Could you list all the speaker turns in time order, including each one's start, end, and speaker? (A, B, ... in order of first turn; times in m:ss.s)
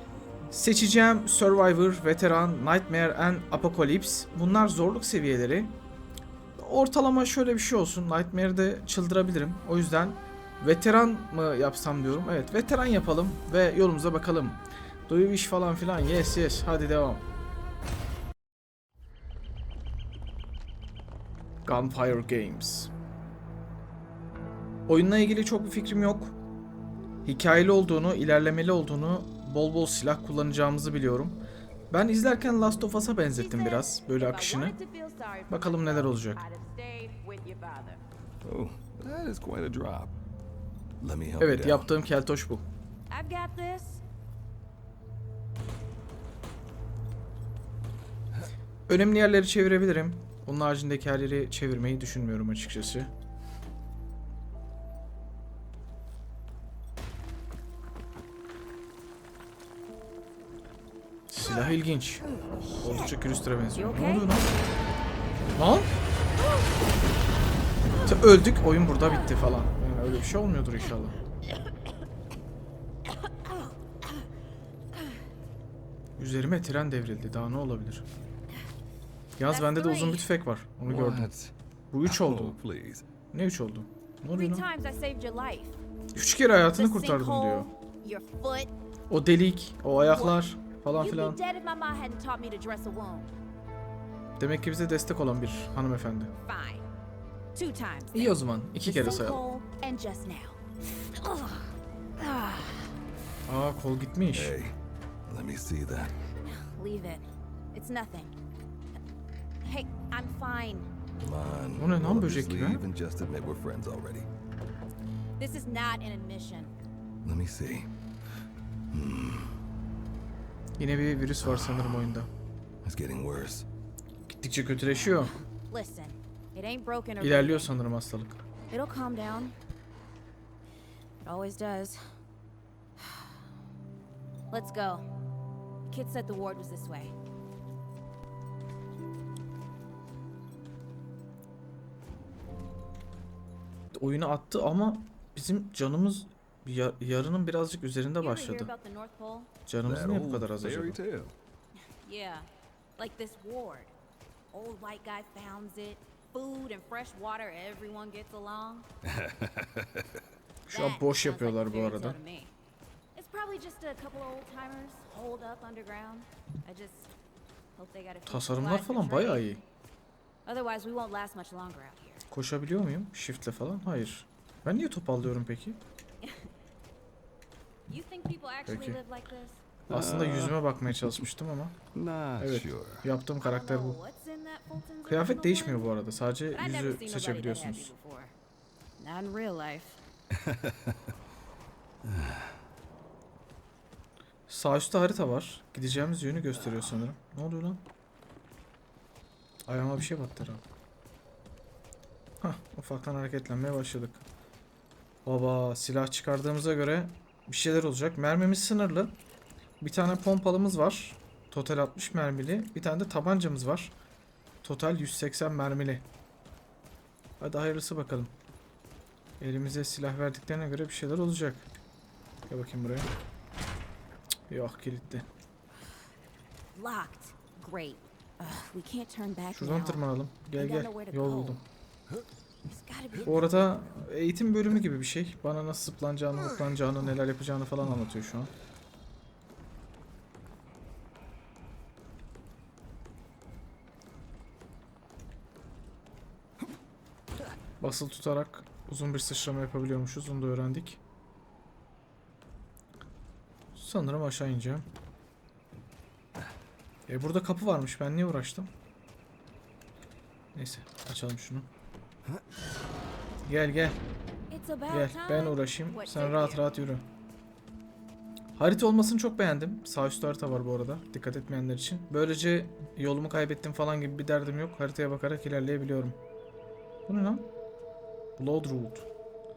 0:00.5-0:05.8 A
0:06.6-0:17.2 A
0:21.6-0:22.9 A
0:24.9-0:26.4 A
0:27.2-0:34.8 A
0:33.3-0:38.0 B
0:35.5-0:36.4 A
0:38.4-0:40.2 C
0:41.0-0:41.9 C
0:41.4-0:42.7 A
0:43.1-0:44.0 B
0:48.9-0:53.1 A
1:01.3-1:02.3 A
1:02.6-1:03.1 B
1:02.8-1:04.5 A
1:03.7-1:04.5 B
1:05.6-1:05.9 A
1:08.0-1:11.2 A
1:16.2-1:18.1 A
1:19.4-1:21.3 A
1:19.5-1:20.3 B
1:20.9-1:21.5 C
1:21.9-1:22.6 A
1:22.0-1:23.0 C
1:23.3-1:24.7 A
1:24.3-1:25.8 B
1:26.1-1:27.7 A
1:26.7-1:28.7 B
1:29.1-1:31.4 A
1:30.1-1:30.4 B
1:31.0-1:33.3 B
1:34.4-1:36.3 A
1:36.4-1:36.9 B
1:37.6-1:40.6 B
1:38.1-1:39.4 A
1:41.2-1:42.9 B
1:43.5-1:44.6 A
1:44.3-1:44.8 C
1:45.3-1:46.1 C
1:46.5-1:48.3 B
1:49.6-1:50.9 B
1:51.2-1:54.3 C
1:51.8-1:52.8 A
1:55.4-1:56.7 B
1:57.2-1:57.9 C
1:58.9-1:59.6 C
2:00.8-2:02.3 A
2:01.4-2:02.1 C
2:02.8-2:03.7 C
2:04.3-2:05.4 A
2:05.6-2:07.7 B
2:07.2-2:08.5 A
2:08.7-2:09.6 B
2:11.2-2:12.0 B
2:13.0-2:13.3 B
2:14.5-2:15.1 B
2:15.9-2:17.1 B
2:23.9-2:28.7 A
2:28.2-2:29.5 B
2:29.7-2:31.0 A
2:29.8-2:31.4 C
2:32.0-2:33.9 B
2:34.5-2:38.9 B
2:39.1-2:40.0 C
2:40.7-2:42.2 A
2:40.7-2:42.5 B
2:43.2-2:47.1 B
2:47.8-2:49.6 B
2:48.3-2:49.6 A
2:50.5-2:52.2 B
2:52.3-2:55.8 A
2:57.9-2:59.6 B
2:58.7-2:59.0 A
2:59.9-3:00.6 C
2:59.9-3:01.8 A
3:01.9-3:03.1 C
3:02.4-3:04.0 A
3:03.4-3:05.9 B
3:05.1-3:07.9 A
3:06.5-3:08.3 B
3:09.0-3:10.0 B
3:10.4-3:10.8 C
3:14.5-3:17.8 A
3:19.7-3:20.6 A
3:22.4-3:24.2 A
3:25.2-3:29.1 A
3:29.8-3:33.9 A
3:34.6-3:36.1 A
3:37.4-3:38.3 A
3:39.4-3:41.7 A
3:42.5-3:43.1 A
3:44.5-3:45.3 A
3:46.8-3:51.6 B
3:49.5-3:51.6 A
3:52.7-3:53.8 B
3:53.3-3:58.5 A
4:07.8-4:11.0 A
4:13.8-4:14.9 A
4:17.1-4:18.7 A
4:20.5-4:21.7 A
4:23.5-4:24.0 A
4:24.5-4:26.7 B
4:24.9-4:27.0 A
4:28.6-4:36.2 A
4:37.1-4:37.5 A
4:38.4-4:39.1 A